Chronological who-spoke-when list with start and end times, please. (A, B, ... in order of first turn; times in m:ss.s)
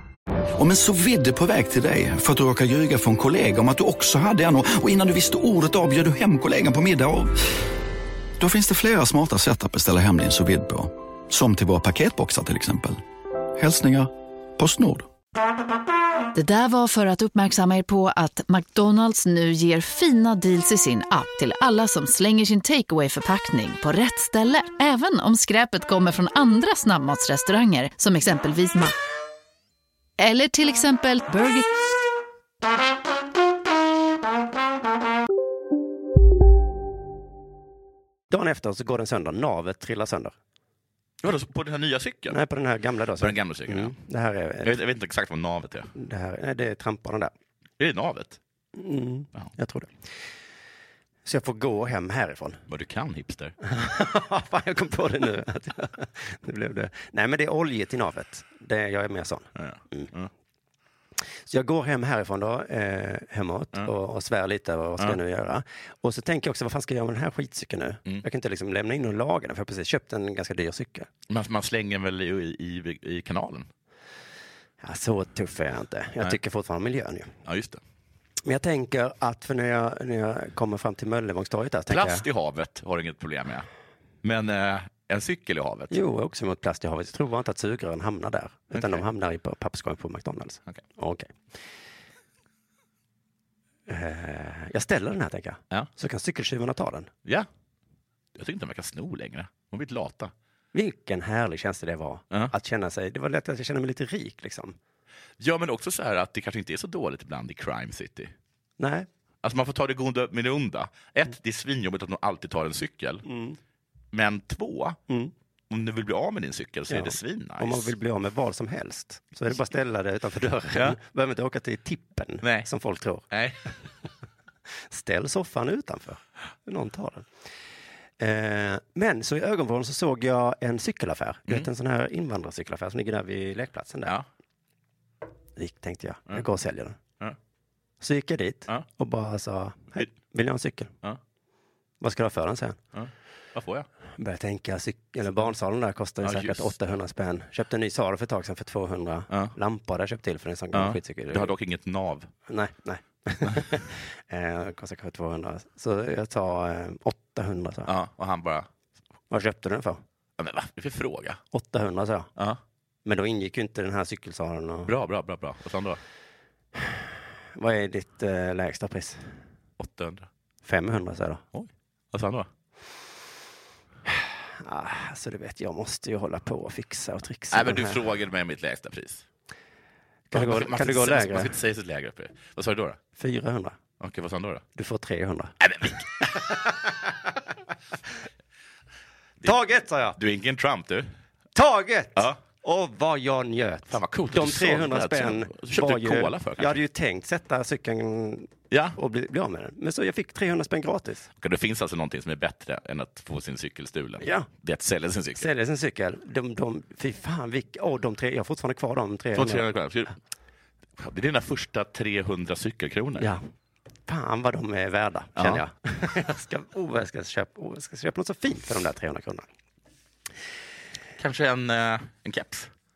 0:00.6-0:07.4 A
0:08.4-0:13.0 A
0:13.6-0:15.1 A
0:16.3-0:29.0 B
0:30.2-0:31.7 B
0:38.3-0:40.4 C
0:41.2-0:42.4 D
0:42.3-0:44.8 C
0:43.2-0:44.0 D
0:44.6-0:45.9 D
0:46.0-0:47.3 C
0:47.8-0:48.4 D
0:48.8-0:50.1 C
0:51.2-0:52.6 C
0:52.7-0:53.6 D
0:53.6-1:00.1 C
0:59.6-1:00.3 D
1:01.5-1:11.1 C
1:11.3-1:13.7 D
1:14.8-1:17.3 C
1:17.5-1:17.8 D
1:18.5-1:22.2 C
1:21.9-1:23.7 D
1:24.2-1:26.0 D
1:25.9-1:31.3 C
1:28.7-1:29.0 D
1:33.9-1:37.1 C
1:38.4-1:40.3 D
1:40.7-1:44.8 C
1:45.4-1:48.3 D
1:48.8-1:49.1 C
1:49.4-1:53.3 D
1:53.3-1:53.6 C
1:54.1-1:55.0 D
1:55.7-1:57.9 D
1:56.9-2:03.3 C
2:02.4-2:02.7 D
2:03.3-2:03.6 D
2:04.9-2:07.3 C
2:08.2-2:14.2 C
2:15.6-2:17.0 C
2:18.0-2:20.9 C
2:22.0-2:22.8 C
2:22.9-2:23.9 D
2:24.2-2:31.5 C
2:26.2-2:26.7 D
2:29.3-2:29.6 D
2:30.7-2:32.3 D
2:32.5-2:37.9 C
2:37.9-2:38.7 D
2:39.3-2:40.0 C
2:40.4-2:41.4 D
2:41.5-2:42.3 C
2:43.0-2:44.9 C
2:44.9-2:46.0 D
2:46.8-2:47.0 C
2:47.6-2:49.3 C
2:49.8-2:50.3 D
2:50.6-2:51.4 C
2:51.5-2:52.5 D
2:54.1-2:58.0 C
2:57.5-2:59.2 D
3:00.3-3:01.5 C
3:00.3-3:03.0 D
3:03.2-3:03.8 C
3:04.0-3:04.6 D
3:04.8-3:05.6 C
3:05.6-3:06.1 D
3:06.5-3:06.7 C
3:09.4-3:10.2 C
3:10.2-3:11.1 D
3:11.6-3:21.3 C
3:13.9-3:16.8 D
3:18.7-3:19.0 D
3:21.4-3:25.5 D
3:24.2-3:24.5 C
3:25.4-3:29.7 C
3:29.4-3:30.1 D
3:31.0-3:33.3 D
3:34.1-3:39.5 C
3:35.4-3:35.6 D
3:41.2-3:42.7 D